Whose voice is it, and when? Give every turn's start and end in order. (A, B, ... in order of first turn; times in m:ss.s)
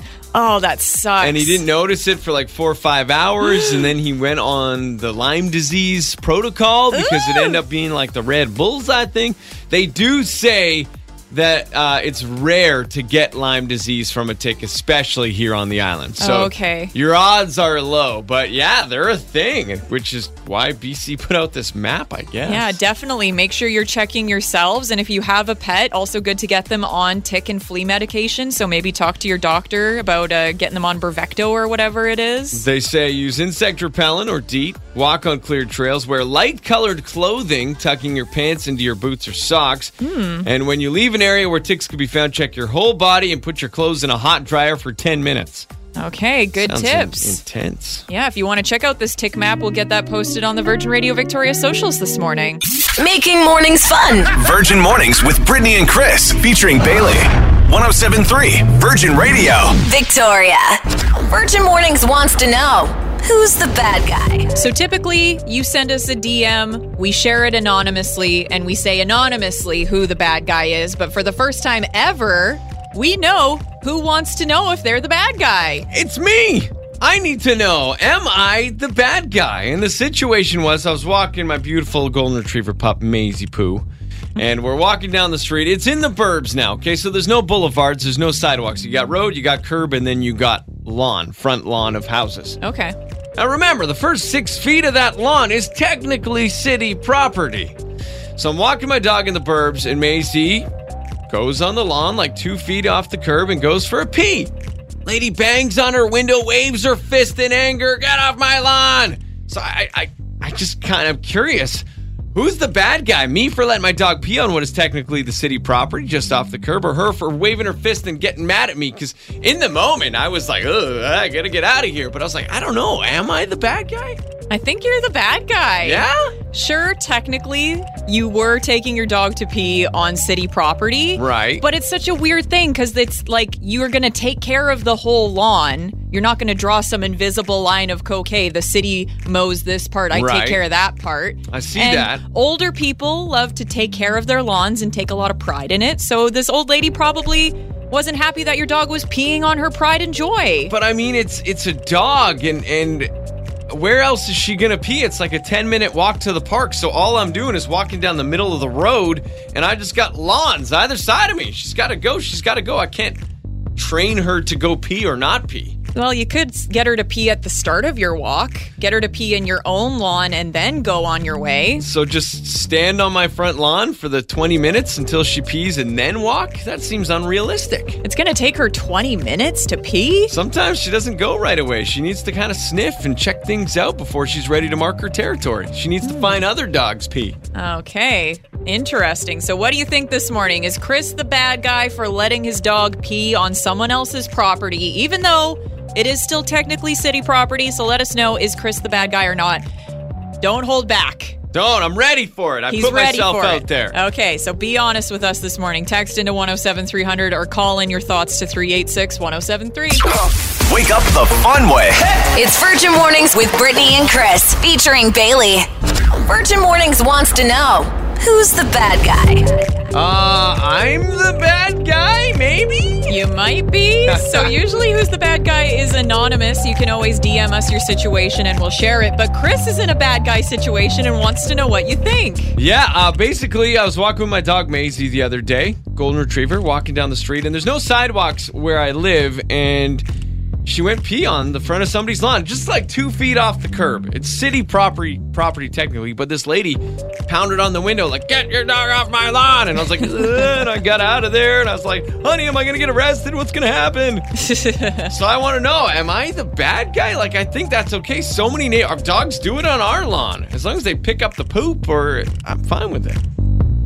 0:00.3-0:01.6 A
0:01.2-0:22.8 B
0:03.5-0:03.8 A
0:06.9-0:07.6 A
0:16.2-0:16.9 A
0:22.4-0:32.6 A
0:32.5-0:45.7 B
0:40.0-0:40.5 A
0:46.0-0:47.4 A
0:46.6-0:48.1 B
0:48.1-0:52.6 A
0:53.0-0:54.3 C
0:54.3-0:59.8 D
0:59.8-1:04.5 C
1:04.6-1:15.9 A
1:15.9-1:23.9 B
1:24.4-1:32.6 B
1:32.6-1:33.0 A
1:33.4-1:37.8 B
1:38.4-1:40.7 B
1:41.3-1:44.5 B
1:45.1-2:04.2 B
2:04.5-2:30.7 A
2:05.8-2:06.3 B
2:11.2-2:11.6 B
2:20.1-2:20.6 B
2:21.5-2:22.2 B
2:30.7-2:33.1 B
2:33.7-2:43.2 B
2:43.8-2:45.8 B
2:46.0-2:51.8 A
2:51.8-2:58.0 B
2:58.0-3:00.3 A
3:00.3-3:07.4 B
3:06.0-3:06.4 A
3:07.6-3:19.6 A
3:20.4-3:21.4 A
3:21.5-3:24.0 B
3:22.7-3:30.1 A
3:30.5-3:32.1 D
3:32.3-3:39.8 C
3:39.9-3:43.2 B
3:43.1-3:52.6 A
3:44.1-3:44.5 B
3:52.6-4:00.0 B
4:00.6-4:14.3 B
4:14.4-4:15.1 A
4:15.1-4:23.2 B